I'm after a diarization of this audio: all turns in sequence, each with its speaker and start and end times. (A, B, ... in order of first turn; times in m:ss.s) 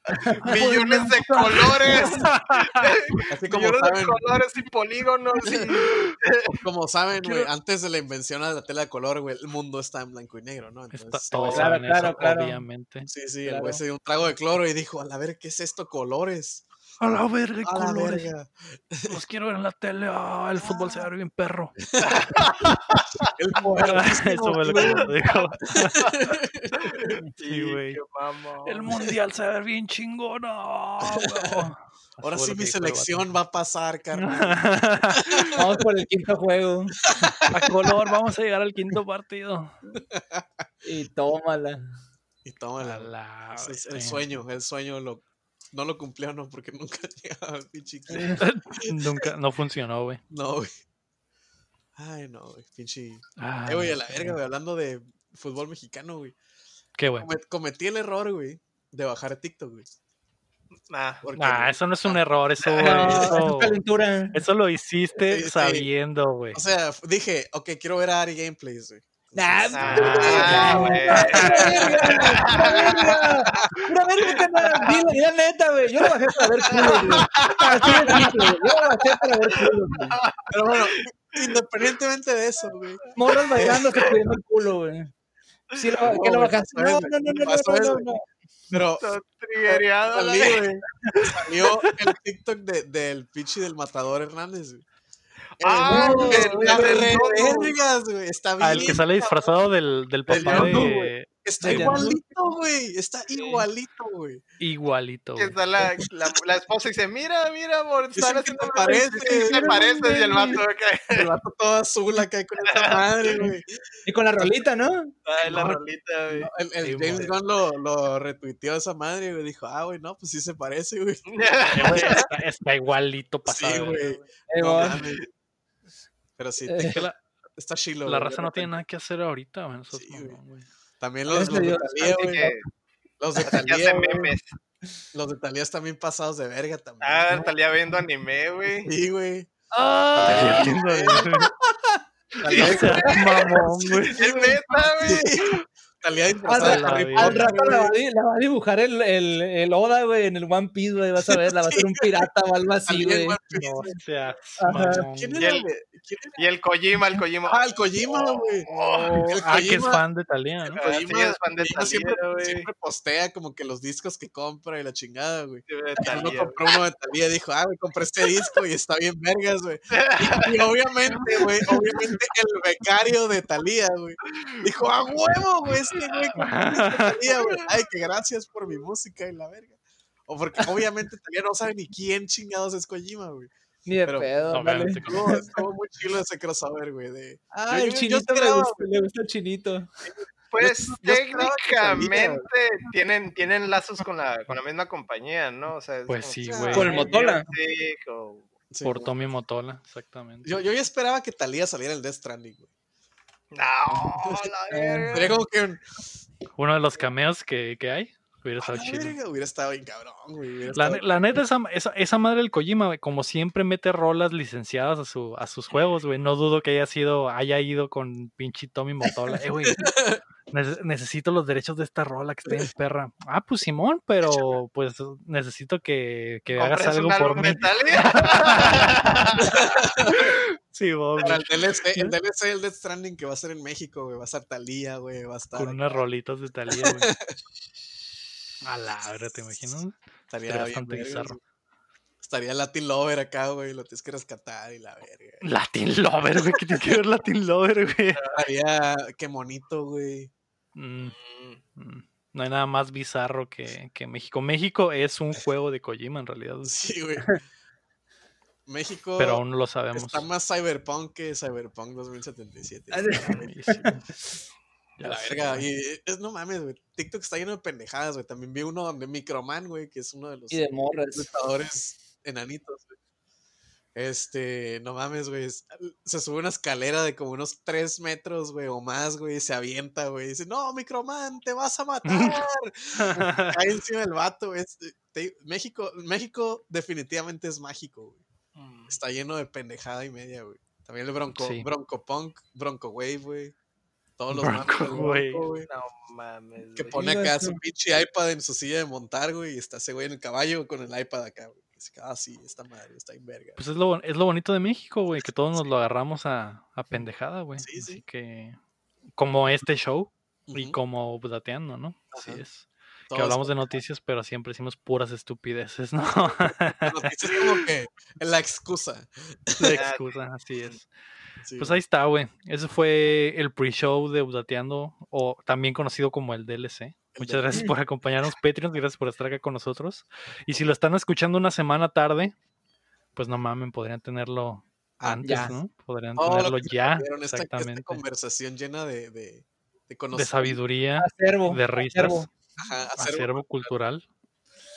0:00.2-0:00.8 A
0:00.4-0:06.5 B
0:00.5-0:02.9 C
0:03.3-0:04.2 D
0:05.4-0:05.7 D
0:05.8-0:06.1 C
0:06.5-0:11.8 D
0:07.2-0:07.5 C
0:10.9-0:13.1 C
0:11.5-0:12.6 A
0:13.0-0:16.7 D
0:13.4-0:13.8 A
0:17.0-0:18.3 C
0:17.6-0:19.2 D
0:19.1-0:21.8 C
0:21.9-0:22.4 D
0:22.0-0:23.3 B
0:23.3-0:25.1 D
0:23.8-0:26.2 C
0:24.7-0:25.4 B
0:25.8-0:27.2 D
0:26.8-0:29.0 B
0:27.4-0:28.0 C
0:28.6-0:33.2 C
0:31.1-0:31.6 D
0:32.2-0:34.6 D
0:34.1-0:35.6 C
0:35.5-0:37.0 A
0:37.1-0:37.8 D
0:37.5-0:39.8 C
0:40.1-0:40.6 D
0:40.8-0:41.8 A
0:42.4-0:49.3 D
0:42.8-0:44.2 C
0:48.1-0:48.4 A
0:48.4-0:50.2 C
0:50.3-0:50.7 D
0:52.0-0:56.4 D
0:53.4-0:54.4 C
0:57.0-0:57.3 C
0:57.2-1:00.0 D
1:00.9-1:01.2 B
1:01.2-1:02.2 D
1:01.4-1:03.8 C
1:02.6-1:03.3 B
1:02.8-1:04.4 A
1:03.0-1:03.4 D
1:04.3-1:06.6 C
1:05.2-1:05.9 D
1:06.5-1:13.7 D
1:09.3-1:20.2 A
1:09.8-1:13.7 B
1:09.8-1:11.7 C
1:16.7-1:18.4 B
1:17.8-1:18.4 D
1:20.2-1:21.5 B
1:20.5-1:24.2 D
1:23.2-1:25.1 A
1:25.8-1:28.2 A
1:26.0-1:28.1 D
1:28.7-1:29.1 D
1:29.0-1:30.6 B
1:29.6-1:34.8 D
1:31.3-1:31.8 C
1:35.6-1:37.7 B
1:35.6-1:39.4 D
1:35.8-1:37.6 A
1:38.6-1:42.0 C
1:40.3-1:44.4 D
1:40.3-1:40.9 B
1:41.6-1:42.2 A
1:43.4-1:43.7 B
1:44.6-1:45.6 C
1:45.4-1:51.3 B
1:48.2-1:49.8 D
1:49.5-1:50.6 C
1:51.1-1:53.7 D
1:52.7-1:53.4 B
1:54.1-1:55.7 A
1:55.3-1:56.5 B
1:56.4-2:01.3 D
1:56.8-1:57.3 C
2:01.3-2:02.2 B
2:01.7-2:04.0 C
2:01.8-2:02.2 D
2:03.4-2:05.3 D
2:04.5-2:05.0 A
2:06.4-2:08.7 D
2:06.6-2:07.0 A
2:06.8-2:07.2 C
2:08.0-2:10.7 C
2:09.9-2:10.4 D
2:11.0-2:12.5 D
2:11.3-2:12.6 A
2:12.2-2:12.6 B
2:13.2-2:14.4 D
2:13.4-2:14.5 B
2:15.1-2:17.5 D
2:17.0-2:18.9 B
2:18.8-2:19.5 D
2:19.7-2:21.5 C
2:20.2-2:28.0 D
2:20.4-2:21.1 B
2:22.4-2:25.5 B
2:22.4-2:24.2 C
2:26.4-2:33.4 A
2:26.6-2:27.4 C
2:31.2-2:32.3 D
2:32.9-2:34.0 D
2:33.5-2:35.4 C
2:34.6-2:35.0 A
2:34.7-2:36.4 D
2:35.4-2:35.7 B
2:36.4-2:39.4 B
2:37.5-2:40.0 D
2:39.3-2:40.8 C
2:40.7-2:42.7 B
2:40.8-2:59.7 D
2:45.7-2:46.8 B
2:49.9-2:51.9 B
2:55.7-2:56.4 B
2:56.4-2:57.2 C
2:57.3-2:57.6 B
3:00.3-3:03.5 D
3:03.9-3:05.4 A
3:04.0-3:04.3 D
3:04.5-3:05.4 C
3:05.0-3:08.8 D
3:07.7-3:09.9 A
3:10.1-3:12.4 D
3:10.5-3:18.5 B
3:16.1-3:17.0 C
3:16.5-3:17.1 D
3:16.7-3:17.5 A
3:18.7-3:19.1 D
3:18.8-3:20.5 C
3:20.4-3:22.7 D
3:23.5-3:25.4 B
3:24.7-3:25.3 A
3:25.1-3:25.8 D
3:26.6-3:29.2 C
3:28.6-3:31.2 D
3:30.7-3:39.9 C
3:39.7-3:40.2 D
3:40.5-3:48.9 C
3:46.6-3:49.8 B
3:49.4-3:50.3 D
3:50.0-3:52.2 C
3:51.2-3:56.0 D
3:55.5-3:57.1 C
3:56.7-3:57.4 D
3:58.6-4:01.4 C
4:00.3-4:01.4 D
4:02.2-4:05.4 D
4:05.4-4:08.2 C
4:08.3-4:10.3 D
4:10.8-4:11.2 C
4:11.0-4:11.6 B
4:11.8-4:16.8 C
4:16.6-4:17.4 D
4:18.7-4:19.4 D
4:19.2-4:20.2 C
4:19.9-4:23.9 D
4:22.9-4:23.9 A
4:23.3-4:24.1 C
4:25.0-4:25.7 C
4:25.0-4:30.6 D
4:30.5-4:31.3 A
4:31.1-4:32.9 D
4:34.0-4:48.2 D
4:42.1-4:42.4 C
4:43.0-4:43.6 C
4:48.6-4:49.0 B
4:48.9-4:53.6 D
4:51.4-4:51.7 C
4:54.2-4:55.7 D
4:54.3-4:55.4 C
4:55.6-4:57.0 B
4:56.8-5:03.6 D
4:56.9-4:57.6 A
5:03.6-5:08.6 C
5:07.6-5:08.0 D
5:09.2-5:17.1 C
5:10.5-5:10.8 D
5:12.1-5:12.4 D
5:13.1-5:13.7 D
5:16.8-5:19.8 D
5:19.6-5:20.9 C
5:19.8-5:20.8 B
5:21.4-5:21.8 D
5:21.6-5:32.4 C
5:27.1-5:27.6 D
5:33.2-5:38.0 C
5:35.0-5:35.6 D
5:35.2-5:35.5 A
5:36.2-5:40.6 D
5:40.1-5:42.3 C
5:41.0-5:42.3 A
5:42.6-5:43.7 D
5:43.0-5:44.1 C